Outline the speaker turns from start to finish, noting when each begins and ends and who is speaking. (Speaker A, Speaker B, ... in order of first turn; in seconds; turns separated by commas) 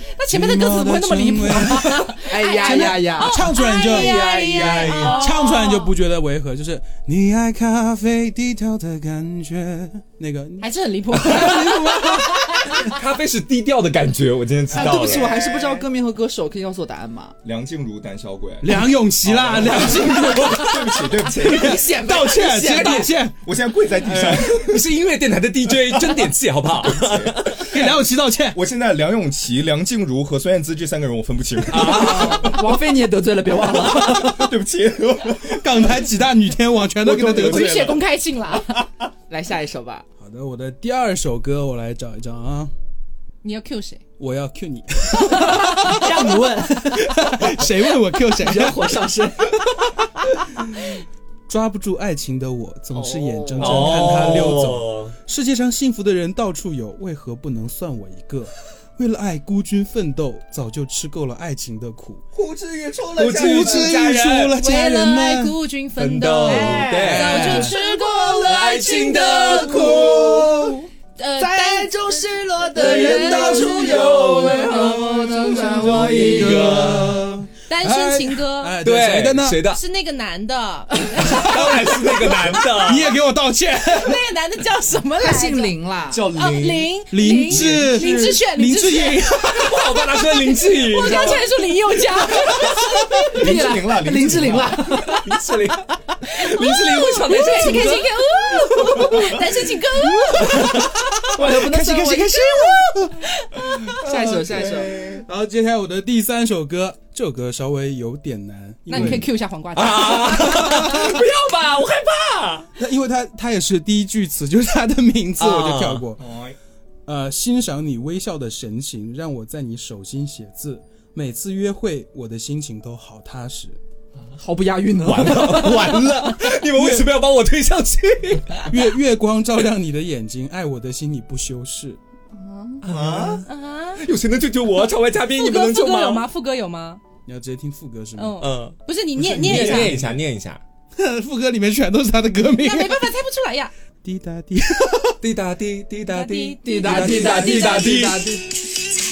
Speaker A: 0.1-5.9, Speaker B: 0.3-12.7, Speaker C: 2.2-5.3, Speaker D: 4.2-5.2, Speaker A: 10.6-12.9, Speaker E: 12.7-15.3, Speaker C: 14.7-17.3, Speaker D: 14.7-15.8, Speaker D: 17.4-22.1, Speaker B: 18.6-23.4, Speaker E: 19.6-20.7, Speaker C: 21.3-23.1, Speaker E: 22.6-23.1, Speaker D: 23.4-24.9, Speaker B: 24.1-24.4, Speaker E: 24.1-27.7, Speaker D: 26.8-27.9, Speaker B: 27.7-28.6, Speaker D: 28.5-32.6, Speaker E: 31.7-32.6, Speaker C: 31.7-34.4, Speaker D: 33.8-36.0, Speaker B: 34.1-34.5, Speaker B: 35.5-37.8, Speaker D: 37.0-38.0, Speaker A: 37.3-38.8, Speaker C: 39.3-40.0, Speaker B: 40.2-42.7, Speaker A: 43.4-44.0, Speaker B: 44.2-49.0, Speaker A: 45.2-47.1, Speaker C: 45.8-46.6, Speaker C: 48.3-49.6, Speaker B: 51.5-62.2, Speaker C: 52.9-54.2, Speaker E: 53.6-55.1, Speaker D: 62.3-64.0, Speaker E: 63.1-64.6, Speaker B: 63.3-65.6, Speaker A: 64.5-70.1, Speaker E: 66.0-67.7, Speaker C: 66.4-70.5, Speaker B: 67.0-67.7, Speaker E: 68.3-70.7, Speaker D: 69.8-70.8, Speaker A: 71.2-74.9, Speaker C: 71.4-77.1, Speaker B: 72.9-74.7, Speaker D: 73.1-77.4, Speaker B: 75.6-79.6, Speaker E: 75.8-77.2, Speaker A: 77.7-78.8, Speaker E: 78.8-79.8, Speaker A: 79.6-82.6, Speaker E: 81.2-83.2, Speaker B: 82.5-84.2, Speaker A: 83.8-85.7, Speaker C: 85.2-86.3, Speaker D: 86.1-86.9, Speaker A: 86.3-93.4, Speaker B: 87.1-90.0, Speaker D: 87.5-88.4, Speaker E: 89.4-91.5, Speaker C: 93.2-95.2, Speaker D: 93.3-95.0, Speaker E: 95.0-99.3, Speaker A: 96.2-101.3, Speaker B: 99.9-103.2, Speaker E: 100.4-100.7, Speaker C: 101.3-102.6, Speaker A: 102.3-104.0, Speaker C: 104.0-104.9, Speaker D: 104.1-105.2, Speaker B: 105.2-109.3, Speaker A: 108.9-111.2, Speaker E: 108.9-109.2, Speaker E: 109.7-112.7, Speaker B: 112.8-116.2, Speaker E: 115.4-116.1, Speaker D: 116.2-116.5, Speaker B: 117.0-123.8, Speaker C: 124.4-126.1, Speaker E: 125.0-128.8, Speaker B: 128.7-132.0, Speaker C: 132.3-132.8, Speaker E: 132.8-133.5, Speaker D: 132.8-133.4, Speaker A: 133.4-134.0, Speaker E: 134.0-136.3, Speaker A: 135.3-137.0, Speaker B: 137.2-138.4, Speaker A: 138.2-140.0, Speaker E: 138.4-138.8, Speaker D: 139.2-140.1, Speaker E: 139.3-140.6, Speaker B: 140.9-143.1, Speaker A: 142.5-143.7, Speaker B: 144.0-145.2, Speaker E: 145.2-148.3, Speaker A: 146.1-148.1, Speaker C: 146.6-148.5